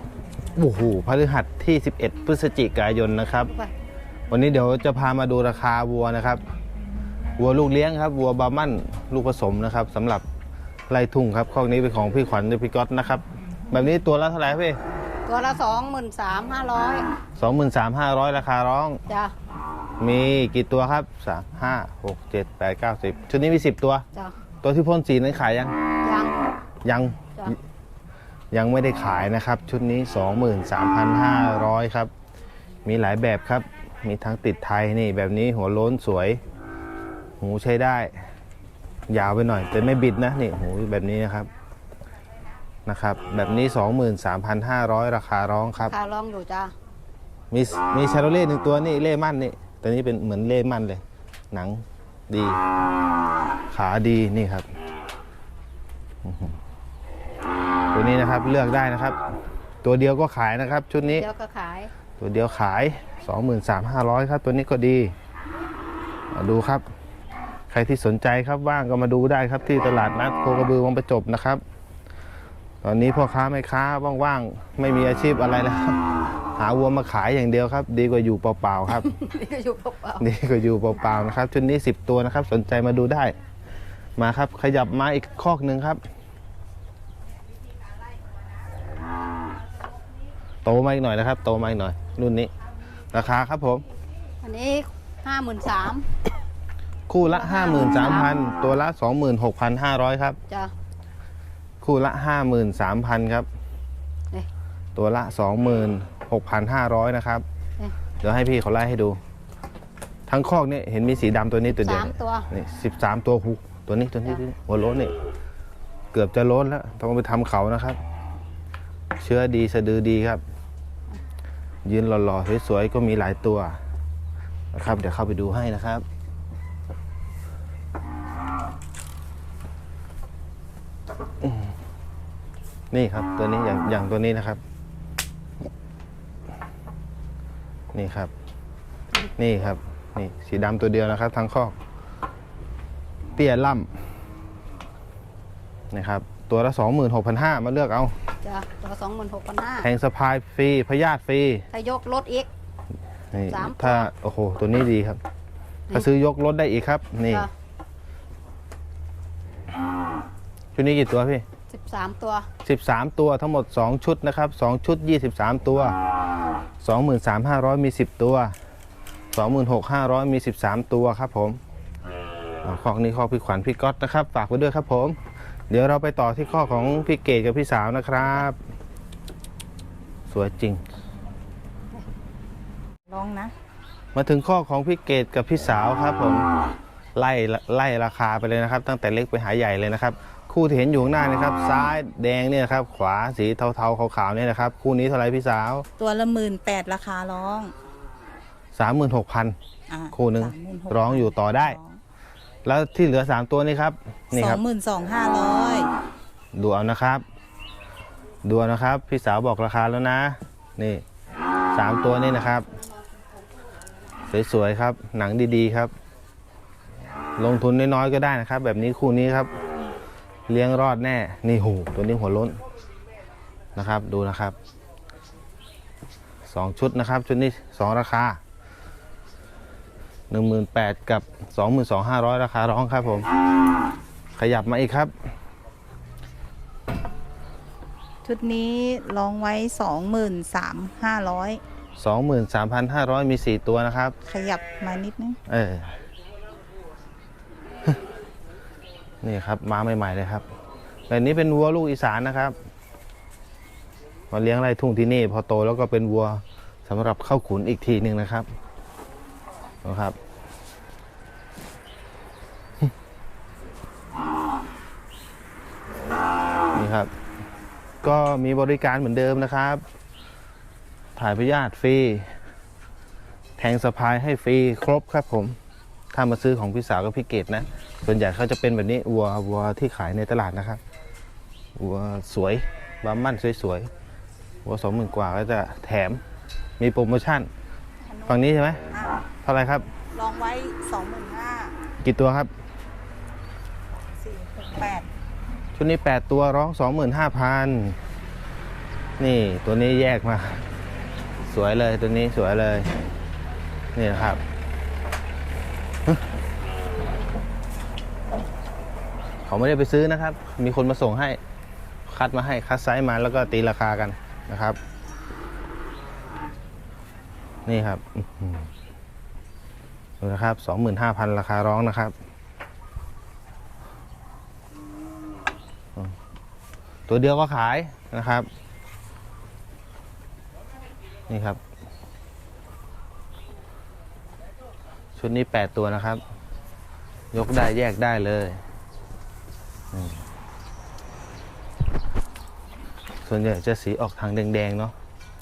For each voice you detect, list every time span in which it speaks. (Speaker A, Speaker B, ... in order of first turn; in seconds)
Speaker A: 0.6-3.5, 4.3-6.4, 7.4-10.2, 10.9-14.8, 17.4-19.0, 20.0-24.1, 24.6-25.7, 26.8-27.6, 28.5-32.1, 32.9-36.4, 37.4-38.2, 39.1-41.5, 42.9-46.0, 47.5-52.6, 53.7-54.7, 56.2-56.6, 57.9-59.2, 59.8-61.3, 62.2-65.1, 66.3-66.8, 67.7-71.6, 72.8-76.0, 76.6-79.1, 80.2-83.3, 84.2-86.0, 90.6-92.5, 93.1-93.8, 97.1-100.4, 101.8-103.5, 105.0-107.5, 108.2-109.2, 110.3-115.1, 116.1-118.0, 119.2-120.4, 121.8-123.8, 124.7-126.0, 132.9-134.6, 137.9-138.3, 139.4-141.8, 143.4-143.9, 145.9-148.2, 149.8-151.7, 153.3-155.2, 155.9-157.5, 160.8-161.5, 162.6-165.9, 166.8-168.6, 169.3-171.6, 172.6-175.2, 175.7-178.6, 180.3-180.8, 184.1-186.5, 187.2-195.9, 198.8-199.6, 200.1-201.8, 202.7-204.6, 206.5-207.2, 208.4-211.0, 211.7-212.7, 214.3-215.9, 217.4-219.5, 220.5-222.6, 223.8-224.6, 226.5-228.4, 230.3-233.3, 234.3-235.1, 242.0-244.2, 245.5-246.0, 249.2-250.4, 251.1-252.6, 254.3-258.5, 259.8-260.2, 266.8-267.1, 268.0-269.8, 271.2-272.3, 273.6-275.6, 276.1-280.8, 281.8-283.9, 284.6-286.2, 286.8-287.5, 288.3-288.8, 289.4-289.9, 292.0-292.5, 295.8-298.0, 299.2-300.6, 301.4-302.9, 303.9-304.4, 309.5-311.4, 312.1-314.8, 317.7-318.7, 320.2-322.1, 327.1-328.5, 331.3-331.6, 335.2-336.2, 337.3-338.6, 339.9-340.2, 343.2-344.9
Speaker B: 15.3-17.1, 19.1-19.3, 26.0-26.4, 45.9-46.7, 61.1-61.9, 79.0-80.2, 94.4-96.1, 97.3-98.3, 111.7-112.5, 148.4-149.9, 151.7-152.5, 153.5-154.1, 161.7-162.5
Speaker C: 183.1-183.5, 196.0-197.7, 199.9-202.0, 204.3-205.9, 238.2-241.6, 244.3-245.4, 288.1-289.2, 289.9-291.8, 294.2-295.1